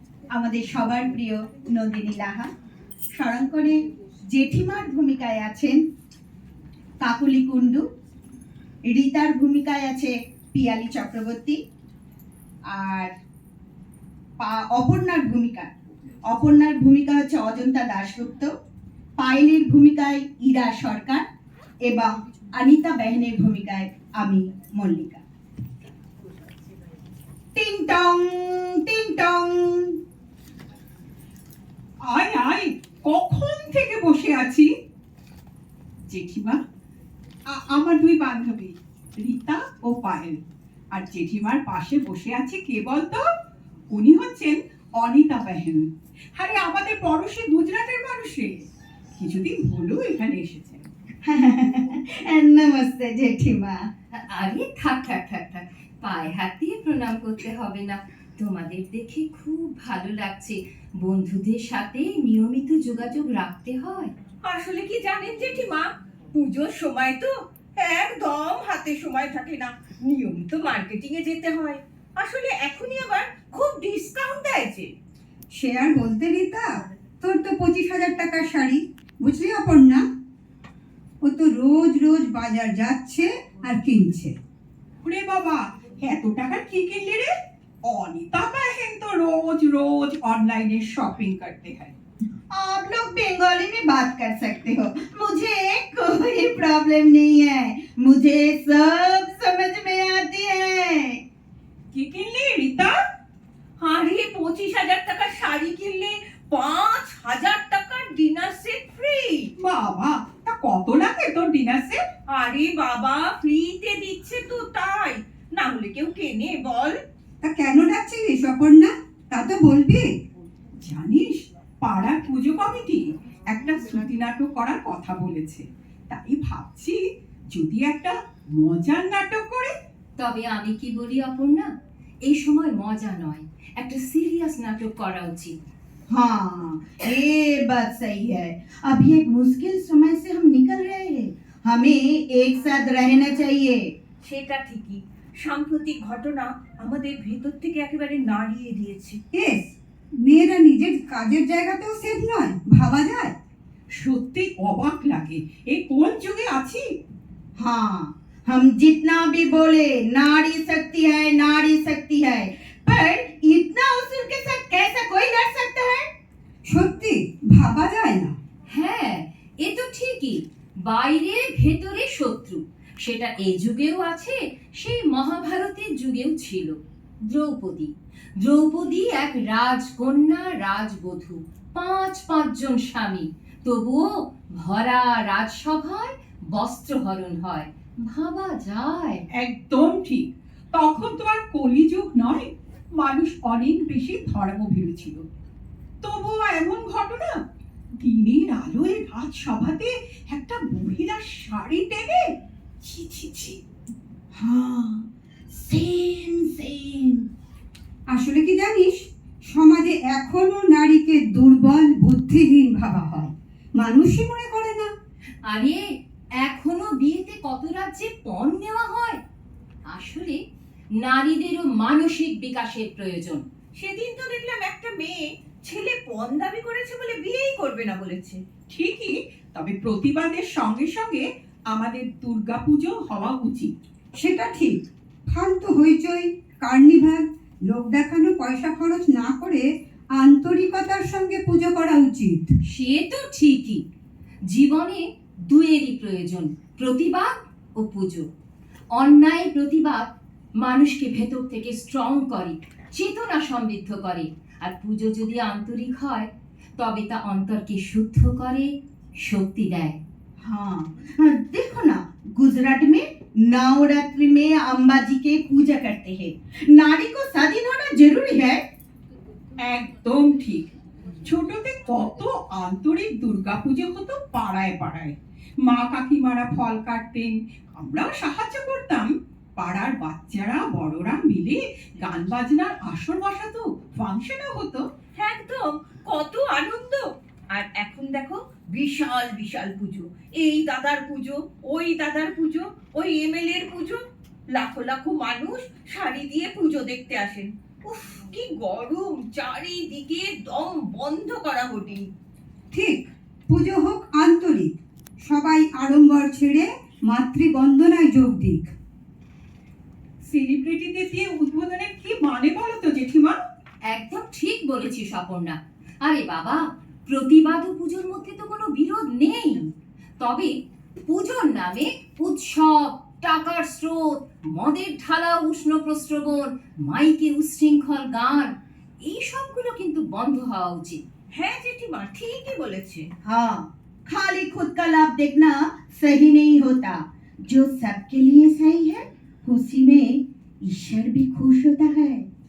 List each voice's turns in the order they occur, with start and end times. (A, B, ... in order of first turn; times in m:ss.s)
0:00.3-0:02.5 A
0:03.1-0:03.8 A
0:04.3-0:05.8 A
0:07.0-0:07.8 A
0:08.8-0:11.6 A
0:12.7-0:13.1 A
0:14.4-0:18.5 A
0:19.2-0:21.2 A
0:21.8-0:25.2 A
0:27.5-0:30.0 A
0:32.1-0:34.7 B
0:36.1-0:36.6 B
0:37.5-0:40.4 B
0:40.9-0:43.2 B
0:43.9-0:48.5 B
0:49.2-0:50.9 B
0:51.2-0:53.8 A
0:54.2-1:04.1 C
1:04.4-1:14.9 D
1:15.5-1:16.7 E
1:17.2-1:20.0 E
1:21.2-1:24.3 E
1:25.0-1:27.3 B
1:27.9-1:32.0 B
1:32.5-1:41.2 A
1:42.0-1:42.9 D
1:43.8-1:49.5 D
1:49.6-1:52.0 B
1:52.3-1:57.0 D
1:57.4-2:00.1 E
2:00.8-2:07.0 B
2:07.5-2:09.7 B
2:10.2-2:11.7 C
2:12.2-2:15.5 C
2:16.1-2:23.8 A
2:24.2-2:29.2 D
2:29.3-2:33.3 E
2:34.0-2:36.8 B
2:37.6-2:46.1 A
2:46.7-2:48.3 E
2:48.7-2:56.7 C
2:57.3-3:09.2 C
3:09.4-3:15.2 B
3:16.0-3:17.3 B
3:18.0-3:22.2 B
3:22.8-3:23.6 B
3:24.3-3:27.2 A
3:28.1-3:34.9 E
3:35.5-3:35.8 C
3:36.4-3:39.2 C
3:39.9-3:40.4 C
3:41.0-3:43.4 C
3:43.8-3:48.4 D
3:48.7-3:53.7 B
3:54.2-3:59.6 E
4:00.2-4:02.5 E
4:02.7-4:03.8 C
4:04.5-4:08.2 C
4:09.0-4:10.1 C
4:10.6-4:18.7 C
4:19.2-4:20.0 C
4:20.4-4:28.6 A
4:29.6-4:30.7 B
4:31.2-4:39.1 B
4:39.6-4:44.8 B
4:45.2-4:54.0 D
4:54.6-5:02.1 D
5:02.7-5:08.7 E
5:10.2-5:13.4 B
5:13.9-5:28.5 C
5:29.0-5:31.0 C
5:31.3-5:33.1 D
5:33.2-5:37.0 A
5:37.5-5:40.1 A
5:40.6-5:42.2 A